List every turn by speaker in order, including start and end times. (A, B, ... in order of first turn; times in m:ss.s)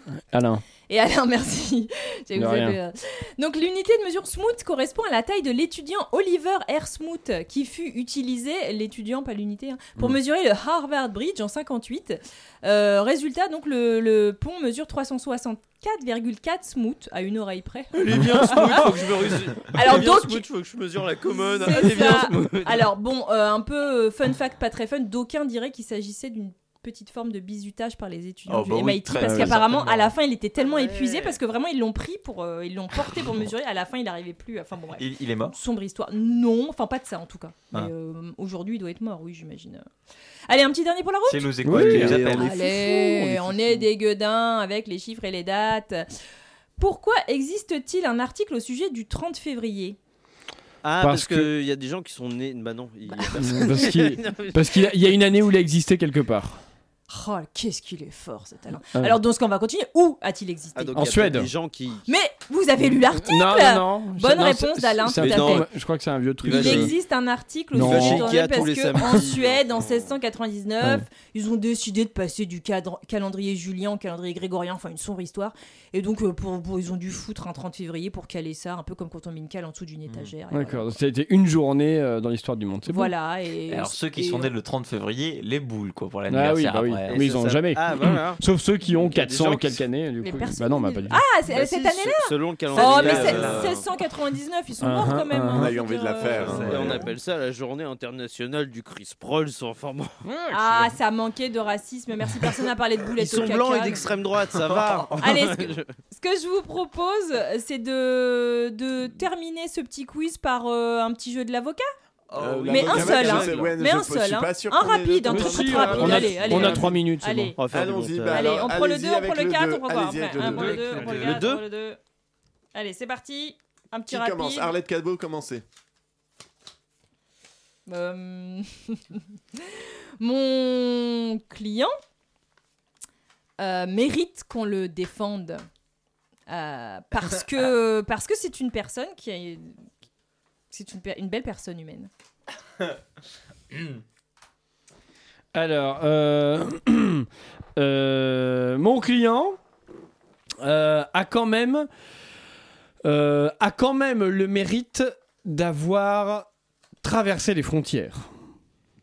0:00.3-0:00.6 A
0:00.9-0:19.0 B
0:02.3-0:02.8 A
0:17.9-0:22.9 C
0:18.1-0:18.9 A
0:19.7-0:20.4 B
0:21.3-0:39.8 B
0:28.5-0:30.1 D
0:29.2-0:29.6 A
0:30.6-0:31.4 C
0:35.0-0:35.5 D
0:40.5-0:46.1 B
0:41.3-0:42.5 D
0:41.6-0:42.2 A
0:41.7-0:43.5 C
0:46.8-0:50.0 B
0:50.8-0:55.0 C
0:51.0-0:51.5 A
0:53.4-0:56.6 A
0:57.1-1:01.0 B
1:00.7-1:02.0 C
1:00.9-1:01.5 A
1:02.0-1:05.6 B
1:03.1-1:07.0 A
1:05.2-1:05.7 C
1:06.4-1:06.9 C
1:06.5-1:21.0 B
1:07.7-1:08.4 A
1:07.8-1:10.1 C
1:20.5-1:23.1 A
1:22.9-1:24.5 B
1:23.7-1:27.2 D
1:26.3-1:31.2 A
1:27.1-1:29.8 C
1:30.2-1:36.7 B
1:31.5-1:33.8 C
1:32.7-1:33.7 D
1:34.8-1:35.7 A
1:35.5-1:37.1 E
1:36.3-1:40.2 C
1:40.4-1:40.9 A
1:40.5-1:44.1 B
1:43.2-1:45.9 C
1:45.2-1:51.8 B
1:52.3-1:53.7 D
1:52.4-1:56.9 E
1:52.7-1:57.6 B
1:53.0-1:53.2 C
1:55.3-1:57.6 A
1:56.1-1:56.7 D
1:57.6-1:58.6 C
1:57.7-2:01.1 E
1:58.3-2:02.0 B
2:00.4-2:01.5 D
2:00.8-2:01.6 C
2:02.7-2:04.7 B
2:04.1-2:05.6 E
2:07.9-2:11.9 B
2:13.6-2:15.6 B
2:16.5-2:19.8 B
2:20.7-2:22.1 B
2:25.5-2:29.6 A
2:30.6-2:31.9 A
2:33.0-2:36.5 A
2:37.0-2:38.3 A